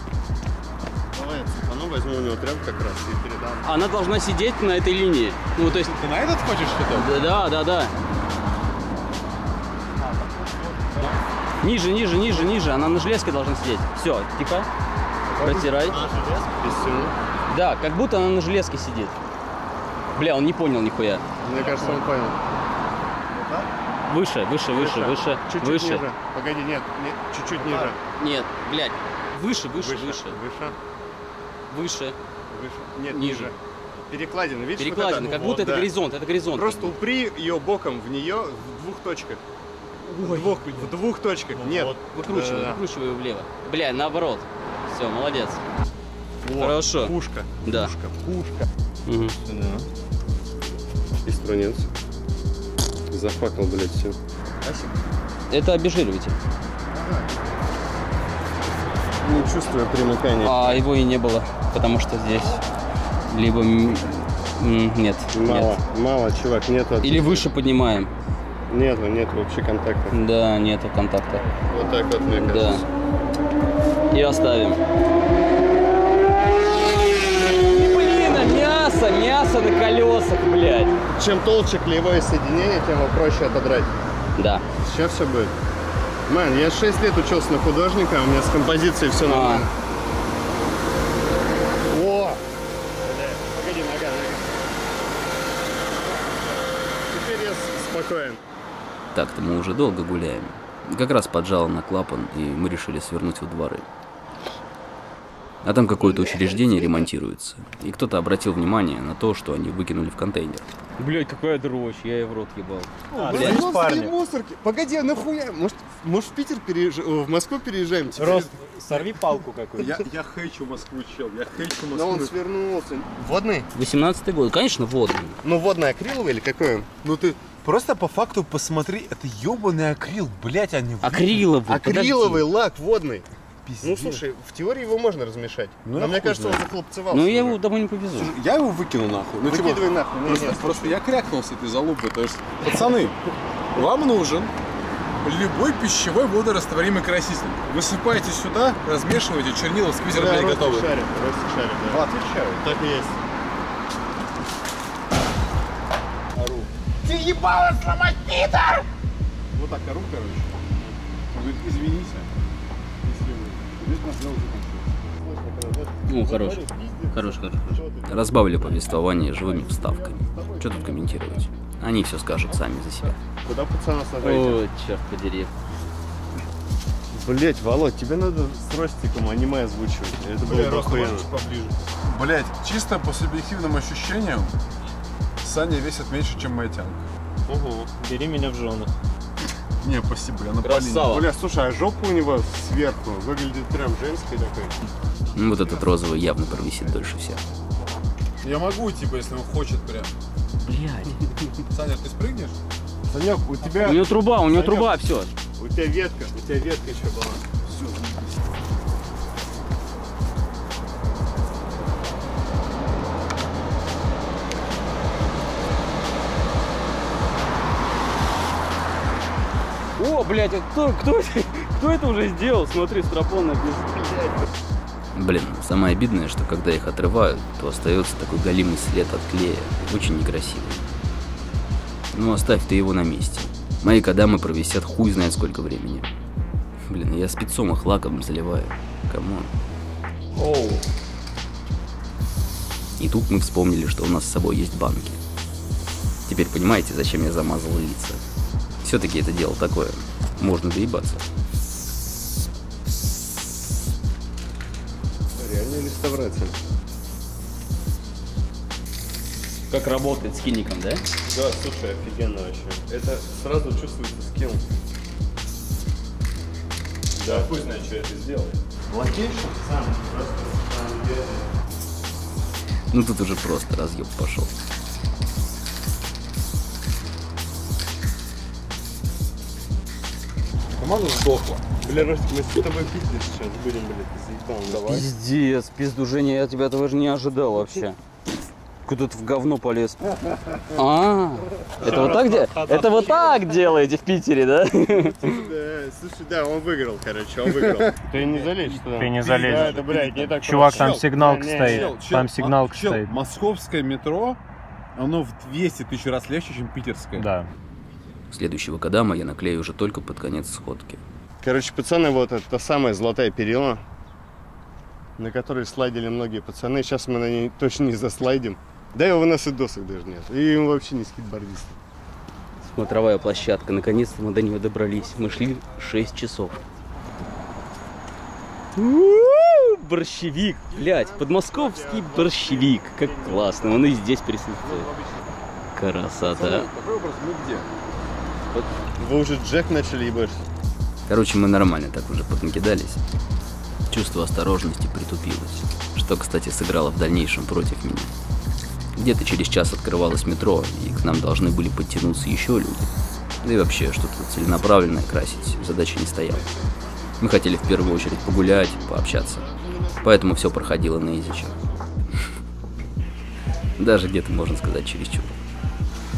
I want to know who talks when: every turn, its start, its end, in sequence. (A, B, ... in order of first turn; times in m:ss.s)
0:01.1-0:03.7 A
0:03.6-0:06.0 B
0:05.7-0:07.1 C
0:06.9-0:07.9 B
0:11.6-0:14.7 B
0:15.3-0:17.1 A
0:15.4-0:16.0 B
0:17.5-0:19.2 B
0:20.1-0:21.2 B
0:21.4-0:22.4 A
0:24.1-0:26.0 B
0:24.7-0:28.0 A
0:27.7-0:30.4 B
0:29.7-0:30.8 A
0:31.7-0:32.2 B
0:32.5-0:33.5 A
0:33.1-0:33.5 B
0:34.1-0:35.9 A
0:34.8-0:36.9 B
0:36.5-0:39.4 A
0:40.2-0:42.8 A
0:42.1-0:45.6 B
0:46.4-0:48.7 A
0:46.6-0:47.9 B
0:49.0-0:49.4 B
0:49.4-0:49.9 A
0:51.2-0:51.9 A
0:53.1-0:54.2 A
0:55.5-0:56.4 B
0:59.2-1:00.8 A
1:00.4-1:02.6 B
1:03.3-1:05.7 B
1:05.3-1:07.5 A
1:07.0-1:08.1 B
1:08.7-1:10.1 A
1:10.1-1:11.5 B
1:11.6-1:12.8 A
1:12.3-1:12.8 B
1:14.1-1:14.8 B
1:17.5-1:21.0 B
1:21.2-1:24.0 A
1:24.4-1:24.6 B
1:24.8-1:25.5 A
1:26.3-1:29.7 A
1:29.2-1:29.7 B
1:31.9-1:32.4 A
1:33.0-1:34.6 A
1:37.0-1:38.4 A
1:39.1-1:43.8 D
1:45.6-1:50.6 D
1:46.0-1:47.1 A
1:51.0-1:53.6 B
1:53.1-1:54.1 E
1:53.1-1:58.5 A
1:58.2-2:00.1 E
1:58.2-1:59.1 C
1:59.7-2:02.3 C
2:01.9-2:03.7 A
2:03.7-2:05.4 B
2:05.4-2:06.9 A
2:07.0-2:11.5 C
2:11.0-2:12.4 B
2:11.7-2:13.3 A
2:13.6-2:14.2 C
2:13.8-2:17.6 A
2:15.8-2:16.6 C
2:17.1-2:18.3 B
2:18.1-2:23.2 C
2:19.4-2:21.0 A
2:23.7-2:24.5 C
2:25.2-2:30.9 C
2:30.0-2:33.2 A
2:31.8-2:32.7 C
2:36.3-2:38.8 C
2:39.5-2:40.6 C
2:41.3-2:42.3 C
2:43.0-2:44.8 C
2:45.2-2:51.3 A
2:46.1-2:47.8 B
2:48.0-2:53.2 D
2:53.4-2:54.6 A
2:54.2-2:55.5 B
2:57.1-3:01.3 A
3:00.4-3:04.5 C
3:05.4-3:07.0 C
3:07.5-3:08.9 E
3:09.8-3:11.2 C
3:10.6-3:11.3 B
3:11.1-3:14.8 A
3:15.3-3:17.4 D
3:18.4-3:20.1 C
3:20.7-3:21.1 B
3:21.7-3:22.6 C
3:23.1-3:24.9 A
3:23.8-3:25.3 B
3:25.6-3:27.4 A
3:27.6-3:28.4 C
3:40.0-3:44.1 B
3:44.0-3:44.4 A
3:45.1-3:50.8 D
3:52.1-3:56.1 D
3:56.9-3:59.5 D
4:00.5-4:00.8 C
4:03.0-4:05.2 D
4:06.2-4:08.2 D
4:08.8-4:11.2 D
4:15.3-4:16.5 A
4:19.7-4:21.0 B
4:21.2-4:24.6 A
4:27.2-4:31.5 A
4:27.3-4:27.7 C
4:32.9-4:34.5 D
4:40.8-4:41.6 C
4:41.8-4:45.0 A
4:44.7-4:44.9 C
4:44.8-4:48.0 B
4:48.8-4:50.0 B
4:50.7-4:55.3 B
4:51.8-4:53.3 E
4:51.8-4:52.5 A
4:54.9-5:01.9 A
4:58.1-5:04.4 C
4:58.9-5:03.1 E
5:05.0-5:07.3 C
5:07.2-5:07.5 E
5:08.3-5:11.0 D
5:11.4-5:13.8 A
5:15.2-5:21.7 A
5:22.7-5:26.6 B
5:28.8-5:34.9 B
5:30.9-5:32.7 A
5:31.5-5:32.4 E
5:33.2-5:33.9 E
5:34.7-5:35.0 E
5:35.8-5:36.3 D
5:36.2-5:37.7 C
5:36.3-5:36.7 B
5:39.0-5:40.4 A
5:41.1-5:43.0 D
5:43.9-5:48.1 D
5:49.0-5:52.9 D
5:53.4-5:56.4 D
5:57.2-5:59.4 D
5:58.5-6:01.6 A
6:00.0-6:01.5 D
6:03.8-6:05.4 D